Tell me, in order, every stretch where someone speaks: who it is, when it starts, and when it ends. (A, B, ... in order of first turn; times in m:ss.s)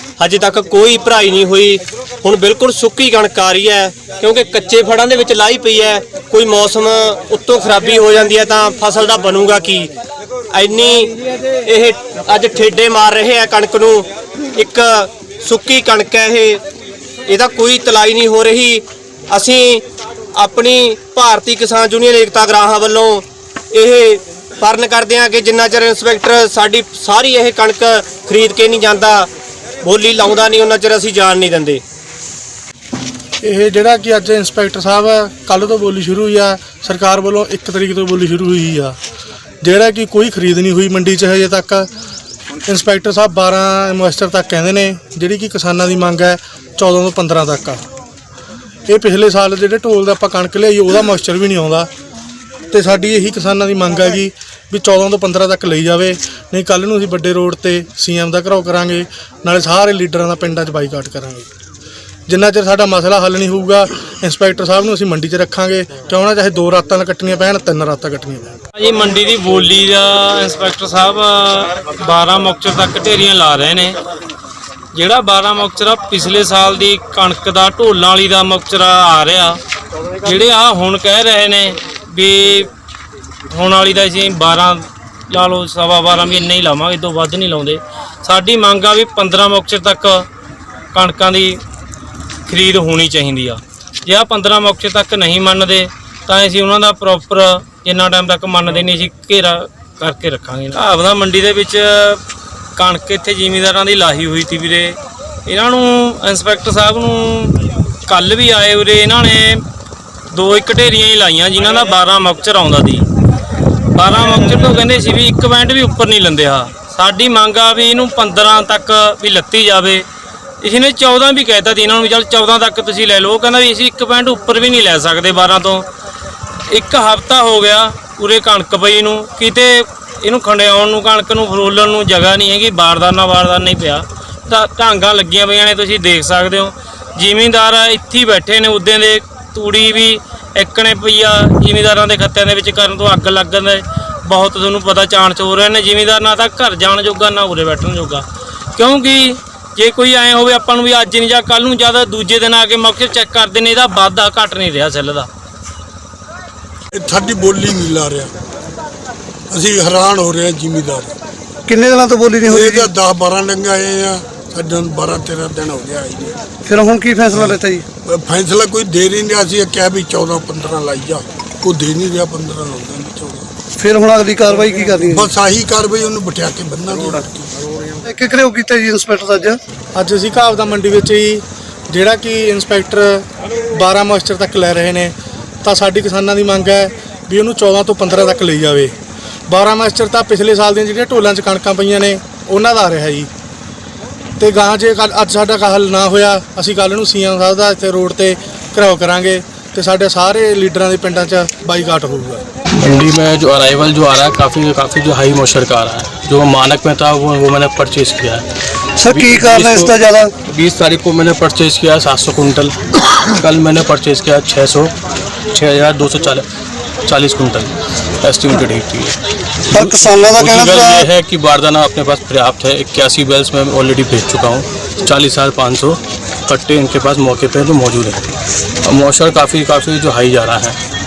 0:00.2-0:09.9 A
0:10.5-0:16.6 A
0:17.3-0:29.3 A
0:29.8-0:31.8 A
0:33.4-0:39.0 B
0:39.6-0:41.9 B
0:42.6-0:47.8 B
0:48.9-0:51.9 B
0:52.7-1:01.5 B
1:02.3-1:08.5 B
1:08.8-1:14.0 C
1:14.9-1:19.6 C
1:20.2-1:22.7 C
1:23.5-1:30.2 C
1:30.9-1:31.6 C
1:32.5-1:42.2 C
1:42.8-1:49.6 C
1:50.3-1:53.1 C
1:53.9-2:00.0 C
2:00.6-2:05.8 C
2:06.7-2:28.2 C
2:28.8-2:35.3 C
2:36.9-2:38.3 D
2:39.5-2:41.1 D
2:41.7-2:42.9 E
2:42.5-2:46.4 D
2:46.6-2:47.9 E
2:47.3-2:53.5 D
2:53.8-2:55.3 E
2:55.0-2:57.5 D
2:58.0-2:59.6 E
3:00.0-3:08.9 B
3:09.5-3:13.3 B
3:14.4-3:22.4 B
3:22.8-3:28.4 F
3:29.0-3:30.4 E
3:29.0-3:34.9 F
3:35.5-3:36.4 F
3:37.1-3:39.2 F
3:39.7-3:50.8 F
3:39.7-3:41.1 E